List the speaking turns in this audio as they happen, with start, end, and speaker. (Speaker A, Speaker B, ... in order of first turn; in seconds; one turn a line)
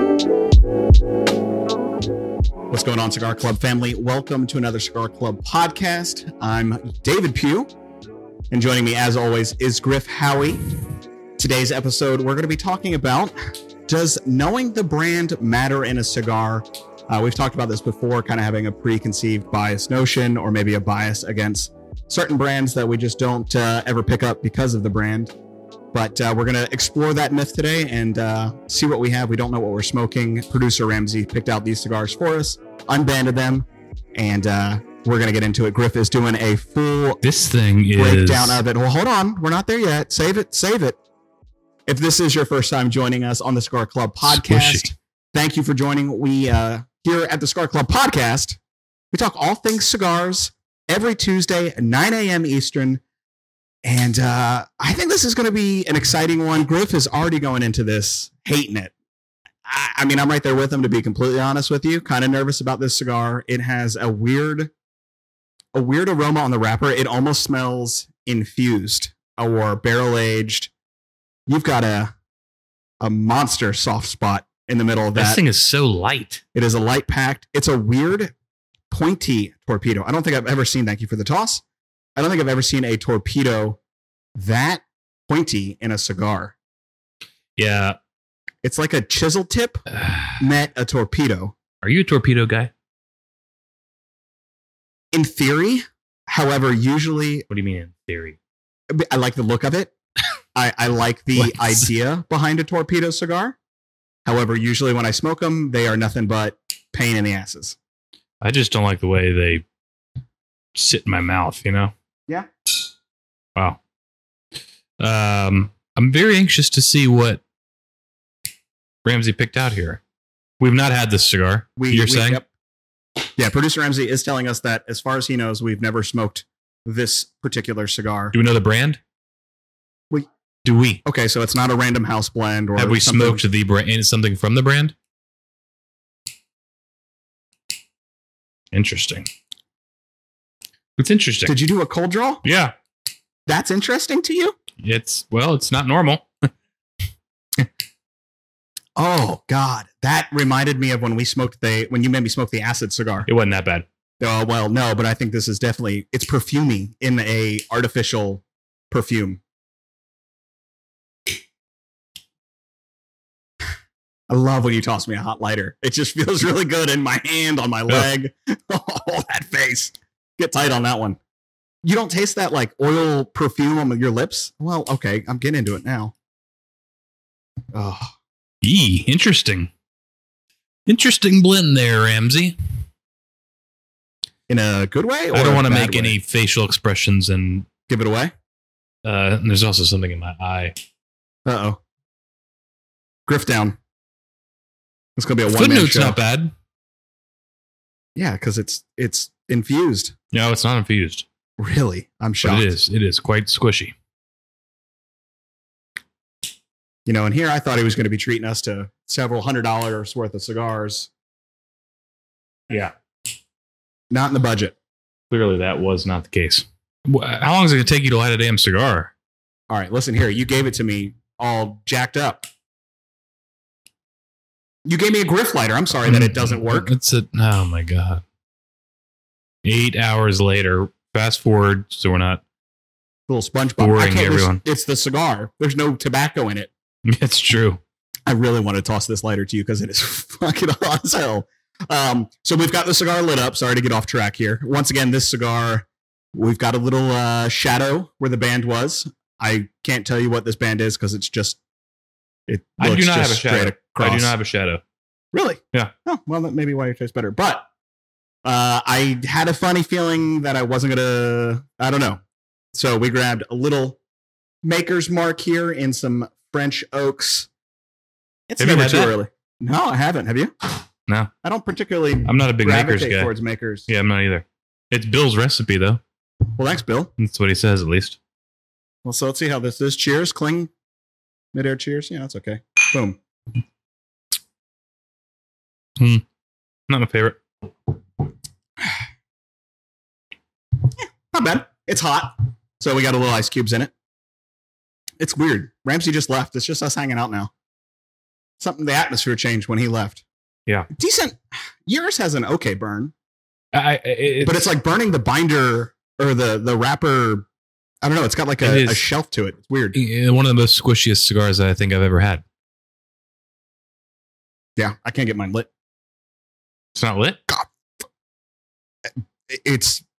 Speaker A: 2.7-7.7
Speaker A: 8.5-10.6
Speaker A: 11.4-13.3
Speaker A: 13.9-25.3
Speaker A: 25.9-37.2
Speaker B: 37.2-38.6
Speaker A: 37.9-41.0
Speaker A: 41.9-48.6
Speaker B: 44.2-44.9
Speaker A: 49.1-53.0
Speaker A: 53.8-58.9
Speaker A: 59.6-64.7
Speaker A: 65.7-70.7
Speaker A: 71.5-72.1
Speaker A: 73.0-75.4
Speaker B: 75.2-76.4
Speaker A: 76.5-78.3
Speaker A: 78.9-81.6
Speaker A: 82.2-83.8
Speaker A: 84.3-86.5
Speaker B: 87.5-88.0
Speaker A: 88.6-89.8
Speaker B: 89.9-90.4
Speaker A: 90.4-91.5
Speaker B: 91.8-92.7
Speaker A: 95.1-97.5
Speaker B: 97.5-98.4
Speaker A: 98.9-99.9
Speaker A: 100.5-103.6
Speaker B: 101.4-101.8
Speaker A: 104.2-107.8
Speaker B: 108.4-109.6
Speaker B: 110.7-111.9
Speaker B: 115.0-117.4
Speaker B: 119.0-120.0
Speaker B: 120.6-122.4
Speaker A: 121.8-122.5
Speaker A: 123.4-128.3
Speaker B: 128.3-129.0
Speaker B: 130.6-131.0
Speaker A: 131.0-133.4
Speaker B: 132.8-134.9
Speaker B: 138.7-139.3
Speaker B: 141.0-141.6
Speaker A: 141.4-142.4
Speaker B: 142.4-142.7
Speaker A: 143.5-144.5
Speaker B: 144.8-146.5
Speaker A: 149.0-153.3
Speaker B: 153.3-153.8
Speaker A: 154.2-159.4
Speaker A: 164.3-171.2
Speaker A: 171.8-176.1
Speaker A: 177.7-178.1
Speaker B: 178.6-179.7
Speaker B: 180.8-182.6
Speaker A: 184.5-186.2
Speaker B: 185.3-187.7
Speaker A: 187.9-188.3
Speaker B: 189.0-190.8
Speaker A: 191.4-191.8
Speaker A: 193.3-193.8
Speaker A: 195.2-196.2
Speaker B: 195.5-196.5
Speaker A: 198.2-200.1
Speaker B: 200.3-201.2
Speaker A: 201.6-202.7
Speaker B: 202.4-203.9
Speaker A: 207.1-211.1
Speaker A: 214.1-214.8
Speaker B: 215.3-219.1
Speaker A: 219.7-222.5
Speaker A: 224.8-226.9
Speaker B: 226.0-228.2
Speaker B: 229.6-232.4
Speaker A: 233.3-236.7
Speaker B: 233.8-234.6
Speaker B: 237.0-237.8
Speaker A: 238.3-251.6
Speaker A: 252.5-254.3
Speaker B: 252.8-254.8
Speaker A: 255.3-257.6
Speaker A: 258.4-262.2
Speaker A: 262.7-264.0
Speaker A: 264.6-267.5
Speaker A: 268.5-270.5
Speaker B: 268.6-269.1
Speaker A: 271.4-273.9
Speaker B: 272.2-273.3
Speaker B: 273.9-276.0
Speaker A: 276.6-277.1
Speaker B: 277.2-278.2
Speaker A: 279.0-280.7
Speaker A: 281.5-283.2
Speaker B: 286.0-286.2
Speaker B: 286.9-287.4
Speaker A: 291.3-293.9
Speaker A: 295.2-297.5
Speaker A: 298.6-300.2
Speaker A: 300.9-303.1
Speaker B: 303.7-304.7
Speaker A: 304.4-307.4
Speaker A: 308.0-310.0
Speaker B: 308.6-309.0
Speaker B: 309.9-312.4
Speaker A: 314.8-315.7
Speaker B: 316.9-317.4
Speaker A: 319.5-320.0